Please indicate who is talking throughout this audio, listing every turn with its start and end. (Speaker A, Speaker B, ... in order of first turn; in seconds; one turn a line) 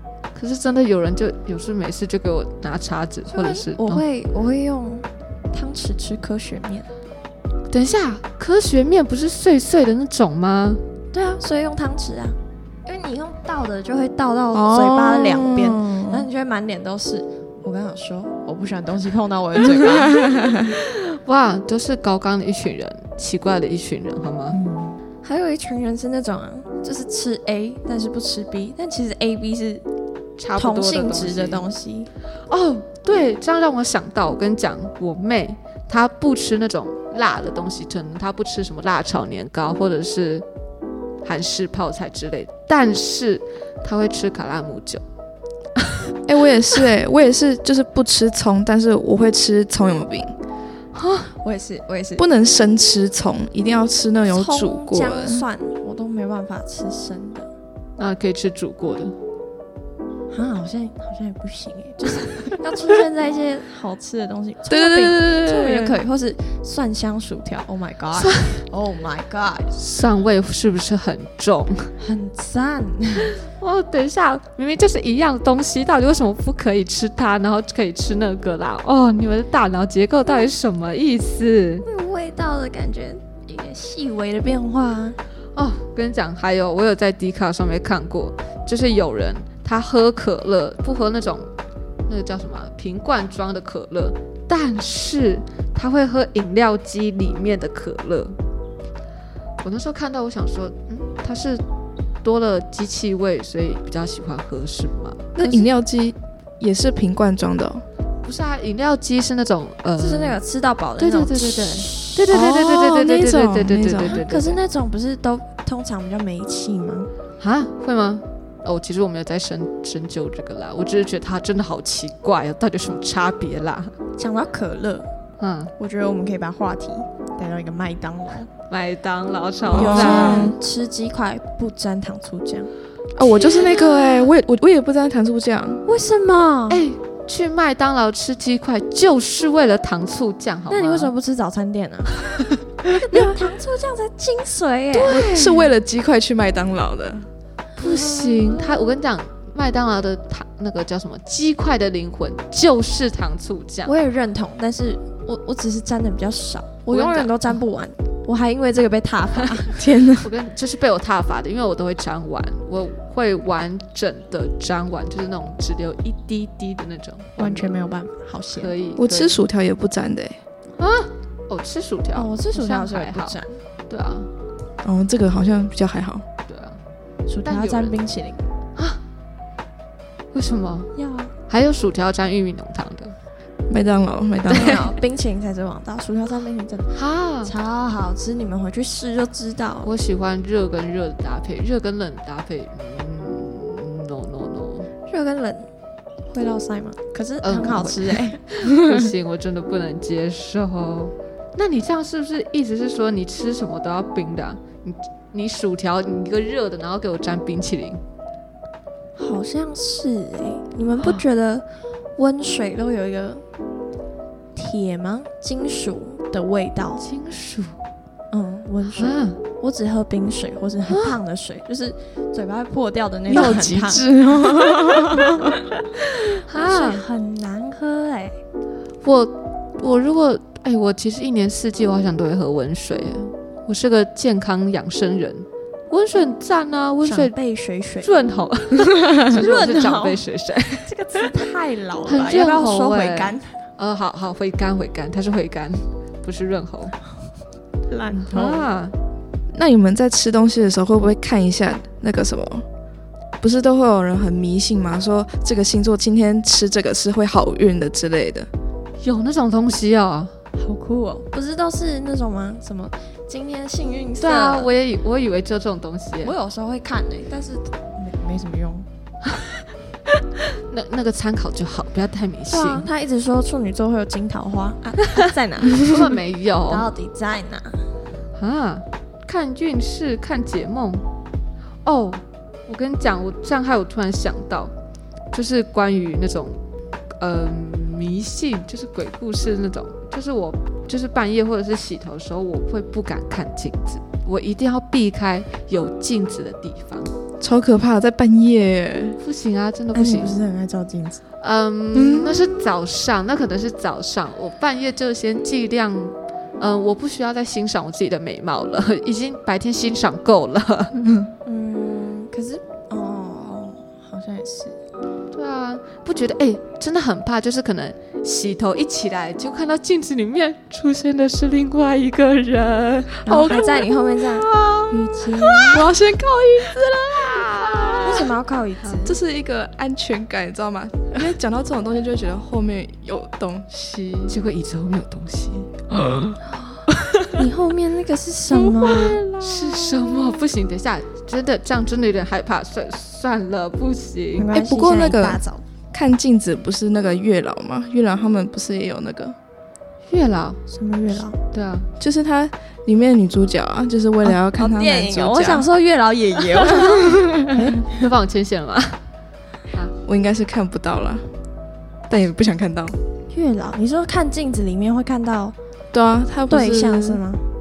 Speaker A: 0.3-4.0
Speaker B: 3.3-6.9
Speaker A: 7.7-10.8
Speaker B: 11.1-20.5
Speaker C: 14.5-16.2
Speaker C: 20.1-20.7
Speaker A: 20.7-24.6
Speaker B: 24.5-29.8
Speaker A: 30.4-31.6
Speaker B: 30.6-32.1
Speaker A: 32.5-40.4
Speaker A: 41.2-45.0
Speaker C: 46.3-50.3
Speaker A: 50.9-51.3
Speaker B: 51.4-52.2
Speaker C: 52.2-55.5
Speaker B: 54.3-57.5
Speaker A: 58.0-59.1
Speaker B: 60.3-69.7
Speaker C: 64.7-66.0
Speaker A: 68.2-68.6
Speaker A: 69.7-71.9
Speaker B: 72.0-73.4
Speaker A: 73.4-81.8
Speaker B: 81.8-85.2
Speaker A: 85.5-91.5
Speaker A: 92.0-98.3
Speaker A: 99.6-101.6
Speaker A: 102.2-105.2
Speaker C: 105.3-107.8
Speaker A: 108.2-110.4
Speaker B: 110.0-112.2
Speaker A: 111.0-114.6
Speaker C: 112.3-114.3
Speaker B: 114.2-117.1
Speaker A: 117.4-123.9
Speaker B: 124.2-125.1
Speaker A: 125.4-125.7
Speaker B: 125.8-128.5
Speaker A: 128.7-130.5
Speaker B: 129.7-132.7
Speaker C: 129.7-130.6
Speaker C: 133.1-135.8
Speaker B: 133.3-133.7
Speaker B: 135.8-136.8
Speaker A: 136.7-141.1
Speaker B: 140.7-142.2
Speaker B: 142.8-145.2
Speaker A: 144.9-145.7
Speaker C: 145.1-147.3
Speaker A: 147.8-153.9
Speaker B: 147.8-148.9
Speaker B: 153.8-159.8
Speaker A: 156.9-157.6
Speaker C: 159.8-160.3
Speaker A: 160.2-167.8
Speaker B: 167.3-168.7
Speaker A: 168.6-169.4
Speaker C: 169.0-170.4
Speaker A: 170.8-173.4
Speaker B: 172.1-173.6
Speaker A: 173.9-174.3
Speaker C: 174.8-176.2
Speaker A: 176.5-176.8
Speaker B: 177.3-178.4
Speaker A: 177.4-178.0
Speaker A: 180.3-180.9
Speaker B: 180.9-181.3
Speaker A: 181.5-183.1
Speaker C: 183.7-184.8
Speaker B: 184.5-189.9
Speaker A: 186.9-187.5
Speaker A: 189.8-194.9
Speaker B: 195.1-195.7
Speaker B: 196.3-198.4
Speaker A: 197.4-208.0
Speaker B: 209.2-211.6
Speaker B: 212.2-213.4
Speaker B: 214.5-217.0
Speaker A: 217.0-217.8
Speaker B: 218.3-228.4
Speaker A: 218.9-219.4
Speaker A: 220.9-221.2
Speaker C: 223.3-225.6
Speaker A: 226.5-227.0
Speaker A: 229.0-237.3
Speaker B: 237.0-238.1
Speaker A: 238.0-240.9
Speaker B: 239.1-240.2
Speaker B: 240.8-243.4
Speaker A: 242.1-246.9
Speaker B: 247.9-248.7
Speaker A: 248.3-248.9
Speaker C: 249.5-252.6
Speaker C: 253.4-258.5
Speaker A: 259.0-260.3
Speaker B: 260.5-264.7
Speaker A: 264.2-266.3
Speaker B: 266.2-268.9
Speaker A: 270.5-272.9
Speaker B: 272.5-276.1
Speaker A: 275.2-276.9
Speaker B: 276.7-277.8
Speaker A: 278.3-281.0
Speaker A: 281.8-284.7
Speaker A: 285.3-286.6
Speaker A: 287.2-297.1
Speaker C: 297.4-299.2
Speaker A: 299.2-300.4
Speaker B: 299.9-301.2
Speaker A: 301.4-310.9
Speaker C: 301.9-302.5
Speaker C: 311.0-311.3
Speaker B: 311.4-314.8
Speaker A: 315.3-323.2
Speaker B: 323.2-325.8
Speaker C: 323.3-323.9
Speaker C: 324.6-324.9
Speaker A: 325.5-325.8
Speaker C: 325.7-328.1
Speaker A: 327.1-328.3
Speaker B: 328.0-329.1
Speaker C: 329.0-334.4
Speaker A: 334.3-335.9
Speaker B: 336.4-339.2
Speaker A: 337.0-337.3
Speaker C: 338.7-340.1
Speaker A: 338.9-344.5
Speaker B: 344.4-345.6
Speaker C: 344.5-345.4
Speaker C: 345.9-349.4
Speaker A: 350.1-350.6
Speaker B: 350.7-351.4
Speaker A: 351.5-351.9
Speaker C: 352.0-355.6
Speaker B: 354.2-357.9
Speaker A: 356.7-357.1
Speaker A: 357.8-359.0
Speaker C: 360.0-361.2
Speaker C: 362.1-363.0
Speaker B: 363.3-365.5
Speaker C: 365.9-367.2
Speaker B: 366.5-367.4